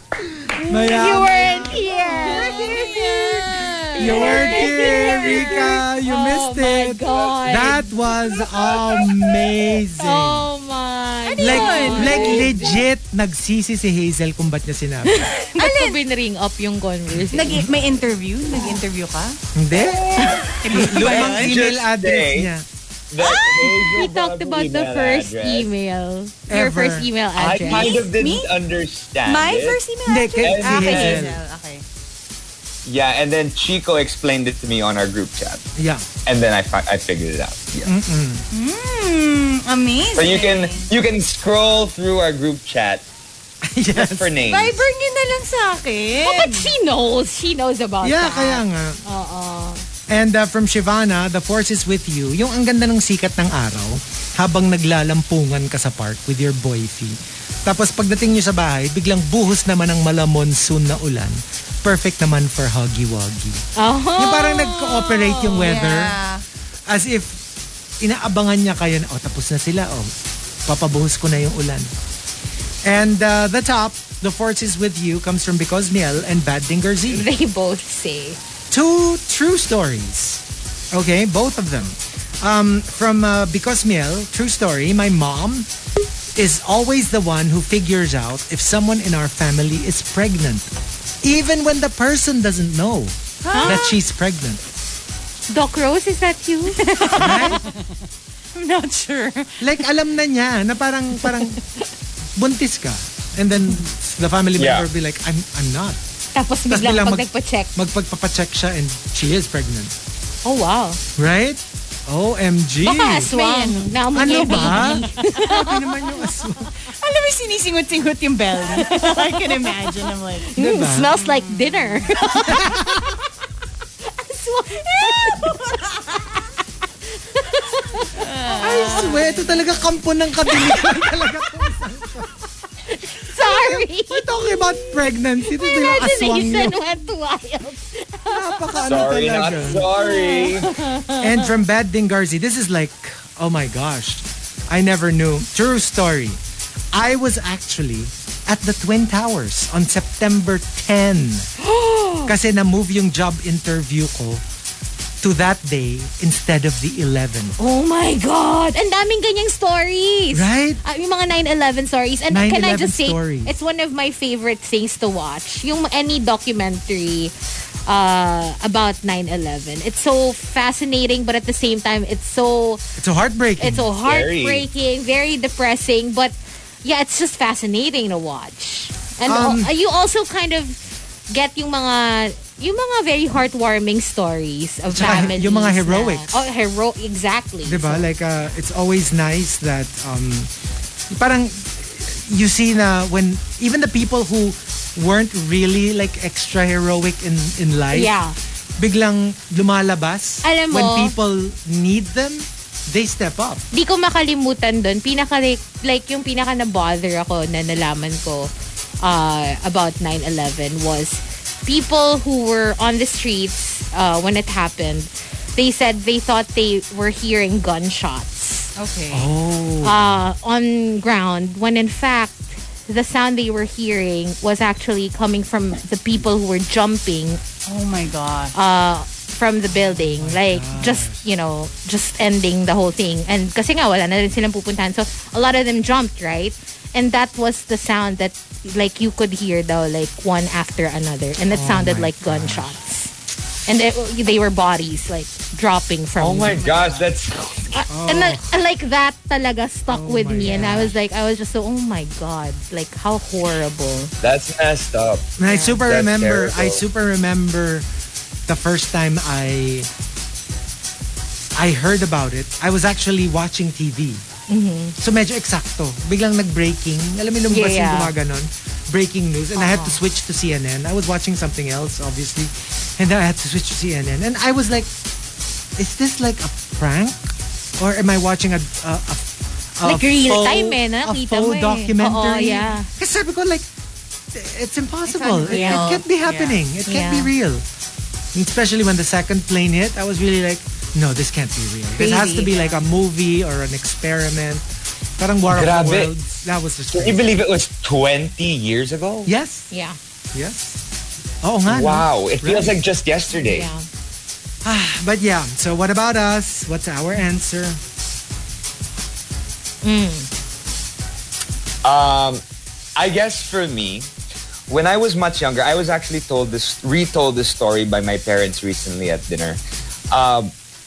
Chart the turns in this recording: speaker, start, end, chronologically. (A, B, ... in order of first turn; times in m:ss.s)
0:00.6-0:02.7 A
0:00.7-0:09.3 B
0:02.2-0:05.6 C
0:04.0-0:10.5 A
0:10.0-0:12.7 B
0:11.2-0:12.8 C
0:11.4-0:15.2 A
0:15.1-0:17.6 B
0:15.5-0:16.0 C
0:17.3-0:19.4 C
0:19.5-0:22.6 A
0:19.7-0:22.5 D
0:20.2-0:20.5 B
0:20.6-0:21.6 C
0:23.1-0:25.7 D
0:23.2-0:23.7 C
0:23.9-0:28.0 B
0:26.5-0:27.1 A
0:27.4-0:29.8 D
0:27.6-0:28.5 C
0:29.2-0:31.8 C
0:30.1-0:31.4 A
0:30.4-0:31.2 D
0:32.8-0:35.6 D
0:35.8-0:36.0 A
0:36.2-0:37.9 D
0:37.8-0:38.4 A
0:38.5-0:40.9 C
0:40.1-0:43.0 D
0:43.7-0:44.4 A
0:43.9-0:44.8 D
0:44.4-0:46.7 C
0:46.2-0:49.8 B
0:48.0-0:49.0 A
0:50.1-1:03.6 A
1:03.8-1:05.8 B
1:04.2-1:06.1 A
1:05.5-1:06.4 C
1:06.9-1:07.4 A
1:08.0-1:10.1 A
1:10.6-1:11.9 A
1:12.8-1:17.3 A
1:17.1-1:18.4 B
1:18.7-1:25.7 A
1:26.3-1:34.6 A
1:33.4-1:34.0 C
1:33.5-1:33.8 B
1:35.5-1:37.6 B
1:36.7-1:37.8 C
1:37.2-1:37.6 A
1:38.5-1:39.7 C
1:39.6-1:41.6 A
1:42.4-1:46.0 A
1:44.6-1:44.9 D
1:46.3-1:47.7 B
1:46.7-1:49.9 A
1:50.4-1:51.0 B
1:51.2-1:53.3 A
1:52.8-1:56.1 B
1:53.2-1:56.1 C
1:54.1-1:56.7 A
1:57.0-2:00.5 C
1:58.7-1:59.8 B
2:00.5-2:03.0 B
2:00.5-2:01.1 A
2:01.1-2:02.5 C
2:02.5-2:03.1 A
2:04.1-2:05.6 B
2:04.8-2:06.0 C
2:07.3-2:09.4 B
2:08.1-2:09.5 C
2:08.6-2:12.3 A
2:10.5-2:10.9 B
2:12.9-2:18.8 B
2:13.3-2:16.8 A
2:18.3-2:19.9 A
2:18.8-2:20.8 D
2:19.7-2:21.5 B
2:21.2-2:26.4 A
2:26.9-2:31.5 A
2:31.6-2:32.3 B
2:32.2-2:34.4 A
2:35.2-2:37.6 A
2:37.6-2:47.3 B
2:40.3-2:40.8 A
2:42.3-2:43.5 A
2:47.9-2:52.8 B
2:53.0-2:53.9 A
2:53.6-3:00.8 B
2:54.0-2:54.6 D
2:59.2-2:59.7 A
3:01.3-3:08.0 B
3:04.9-3:06.4 A
3:07.6-3:10.5 A
3:11.1-3:18.1 A
3:17.9-3:18.3 B
3:18.8-3:23.6 A
3:20.4-3:21.1 B
3:23.7-3:28.5 B
3:29.0-3:38.7 B
3:38.8-3:39.3 C
3:39.1-3:40.2 A
3:39.8-3:47.4 B
3:47.6-3:48.5 C
3:48.5-4:03.1 B
3:49.7-3:51.2 A
4:01.5-4:02.8 A
4:03.6-4:06.6 B
4:06.2-4:07.7 D
4:06.6-4:07.1 C
4:07.7-4:14.1 B
4:07.9-4:08.5 A
4:09.9-4:10.9 A
4:14.2-4:16.8 D
4:15.4-4:17.8 A
4:15.4-4:15.8 B
4:18.4-4:19.9 A
4:21.5-4:24.2 A
4:24.5-4:25.0 B
4:25.0-4:34.9 A
4:27.5-4:28.1 B
4:29.6-4:30.0 B
4:35.8-4:43.7 A
4:39.8-4:42.9 B
4:44.3-4:47.6 A
4:45.0-4:46.6 C
4:45.5-4:45.9 B
4:46.9-4:47.3 B
4:48.3-4:54.6 A
4:52.0-4:52.8 C
4:55.2-4:57.3 A
4:55.5-4:56.1 D
4:56.9-4:59.3 D
4:59.2-4:59.7 A
4:59.7-5:00.0 B
5:00.3-5:00.8 A
5:01.4-5:02.8 A
5:01.7-5:03.7 D
5:03.3-5:03.8 B
5:04.6-5:07.8 A
5:09.8-5:10.3 B
5:11.8-5:12.4 D
5:13.0-5:14.1 D
5:14.7-5:20.5 D